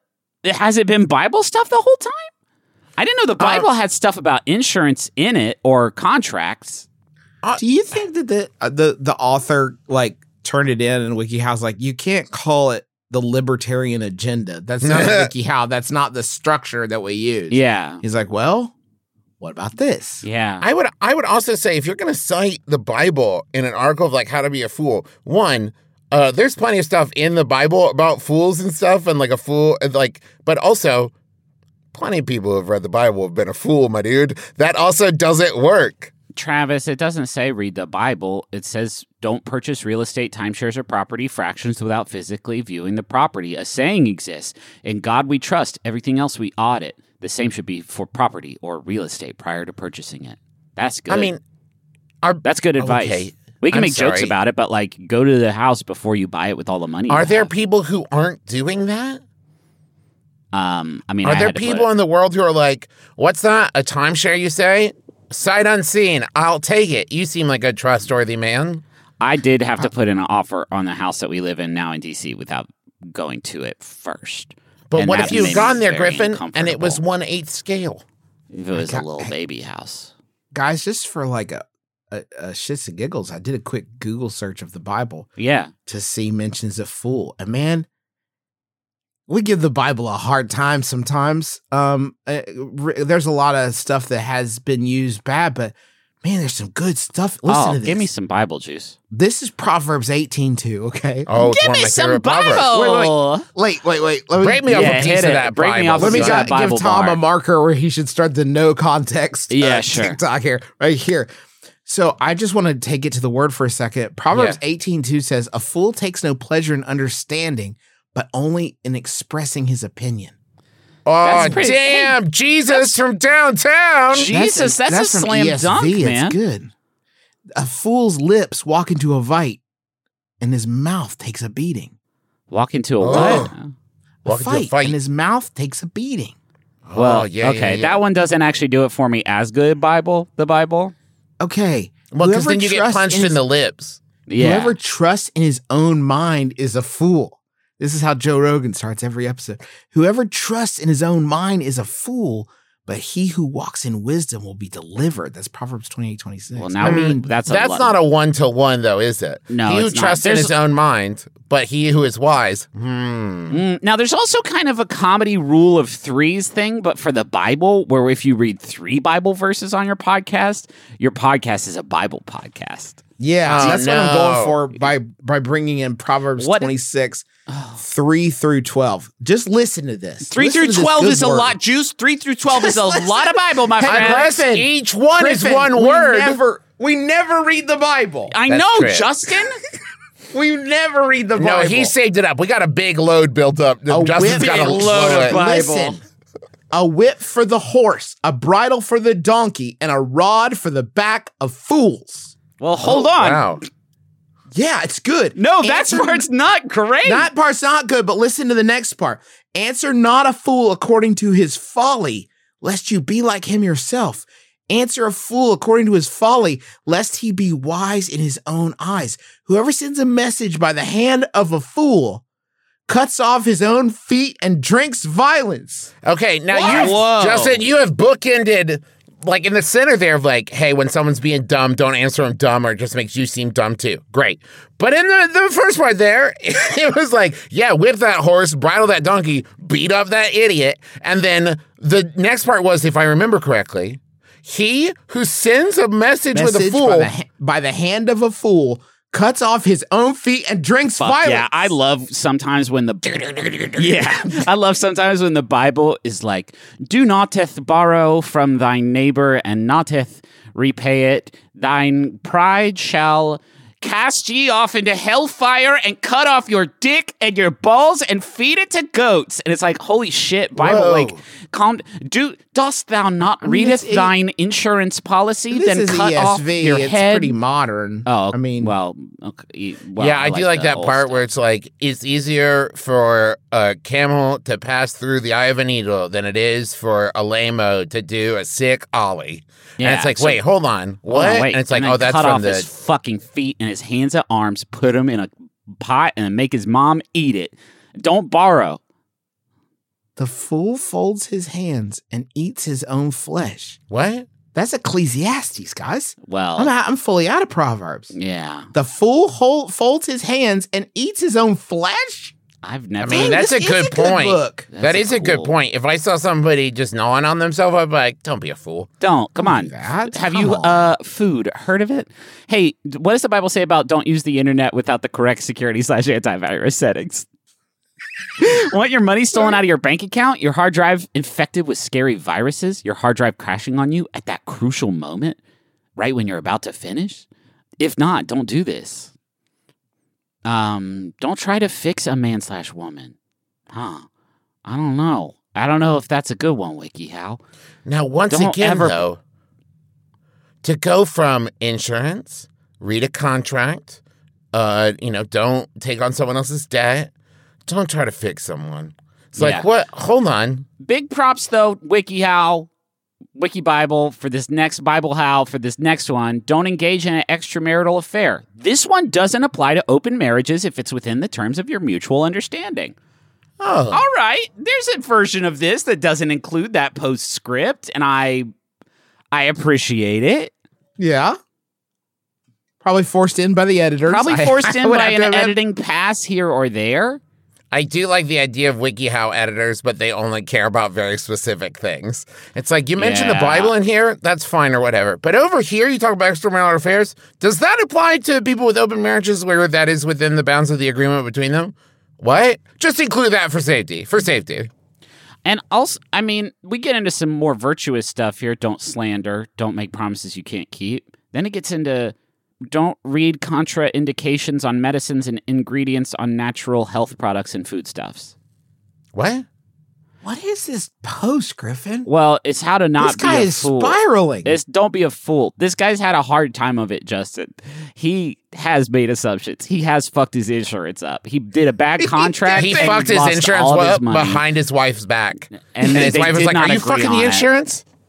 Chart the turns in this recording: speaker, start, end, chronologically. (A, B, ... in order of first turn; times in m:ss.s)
0:00.4-0:02.3 A
0:03.0-0:06.8 A
0:07.6-0:18.7 B
0:14.8-0:15.3 C
0:17.5-0:18.0 A
0:19.4-0:20.2 B
0:20.2-0:20.6 A
0:20.6-0:31.1 C
0:31.9-0:36.1 C
0:36.3-0:51.3 A
0:51.1-0:51.4 C
0:52.2-0:54.3 C
0:52.4-0:57.5 A
0:57.1-0:59.2 C
1:00.5-1:01.9 A
1:01.2-1:08.8 C
1:09.2-1:17.0 A
1:14.9-1:18.0 C
1:15.2-1:15.8 B
1:18.5-1:20.1 A
1:18.7-1:19.3 B
1:20.5-1:25.3 B
1:25.4-1:25.7 A
1:25.9-1:27.9 B
1:29.3-1:38.1 B
1:37.5-1:39.0 A
1:39.1-1:41.3 B
1:41.3-1:42.8 C
1:41.4-1:43.4 A
1:42.7-1:45.2 B
1:44.4-1:46.5 C
1:44.7-1:47.2 A
1:46.0-1:51.3 B
1:49.5-1:50.2 A
1:51.8-2:00.3 B
1:54.3-1:54.6 C
2:01.0-2:04.3 C
2:01.2-2:02.1 A
2:01.3-2:01.7 B
2:02.7-2:03.0 A
2:04.1-2:06.4 A
2:04.2-2:06.7 B
2:07.5-2:09.6 B
2:10.4-2:11.9 B
2:12.5-2:13.7 A
2:13.0-2:13.5 C
2:13.1-2:13.5 B
2:14.2-2:16.4 B
2:14.2-2:15.0 C
2:16.8-2:18.0 C
2:16.9-2:20.9 A
2:21.4-2:23.4 B
2:22.1-2:24.0 C
2:24.3-2:24.8 A
2:24.4-2:37.2 B
2:36.6-2:37.9 A
2:36.8-2:43.6 C
2:39.5-2:40.5 A
2:43.5-2:53.0 A
2:53.2-2:57.2 B
2:53.5-2:54.6 C
2:56.4-2:56.7 A
2:57.5-2:57.8 A
2:57.8-3:01.6 B
3:00.3-3:04.6 A
3:02.5-3:08.3 B
3:03.8-3:06.4 C
3:08.3-3:09.6 A
3:08.5-3:09.1 C
3:10.3-3:11.9 B
3:11.4-3:15.4 C
3:13.9-3:16.0 B
3:14.3-3:16.0 A
3:16.7-3:22.4 B
3:22.6-3:23.5 A
3:22.8-3:23.6 C
3:24.5-3:26.2 B
3:25.4-3:27.3 A
3:27.0-3:42.2 B
3:42.9-3:45.9 B
3:46.0-4:07.1 C
3:46.5-3:47.0 B
3:46.6-3:47.6 A
4:06.3-4:11.7 B
4:11.0-4:37.4 A
4:30.6-4:31.2 B
4:33.4-4:34.1 B
4:35.5-4:38.7 B
4:38.0-4:41.2 A
4:40.0-4:52.7 C
4:49.8-4:50.4 A
4:51.1-4:58.8 A
5:00.2-5:03.8 B
5:03.9-5:04.3 C
5:04.5-5:08.1 B
5:06.2-5:06.7 A
5:08.1-5:08.7 A
5:08.7-5:12.3 B
5:12.6-5:13.4 A
5:13.0-5:18.9 C
5:13.1-5:14.7 B
5:14.7-5:15.5 A
5:19.0-5:27.2 A
5:19.4-5:20.9 B
5:28.4-5:35.4 A
5:36.0-5:37.2 A
5:37.8-5:39.1 A
5:40.4-5:43.1 A
5:43.7-5:44.1 A
5:44.6-5:47.4 A
5:47.8-5:49.2 C
5:48.3-5:49.0 A
5:50.6-5:54.0 C
5:54.5-5:57.1 C
5:57.7-6:00.7 C
5:59.4-5:59.7 A
6:00.8-6:02.7 A
6:03.4-6:12.9 A
6:13.6-6:14.0 C
6:13.9-6:18.5 A
6:19.3-6:20.5 A
6:21.0-6:21.4 B
6:22.8-6:25.6 B
6:24.0-6:27.2 A
6:27.7-6:44.7 C
6:33.0-6:33.7 A
6:45.4-6:52.1 A
6:52.7-6:58.3 A
6:59.1-6:59.4 C
7:00.2-7:02.1 B
7:02.0-7:14.4 A
7:03.0-7:04.6 B
7:12.0-7:13.1 B
7:12.5-7:17.8 C
7:15.6-7:17.5 A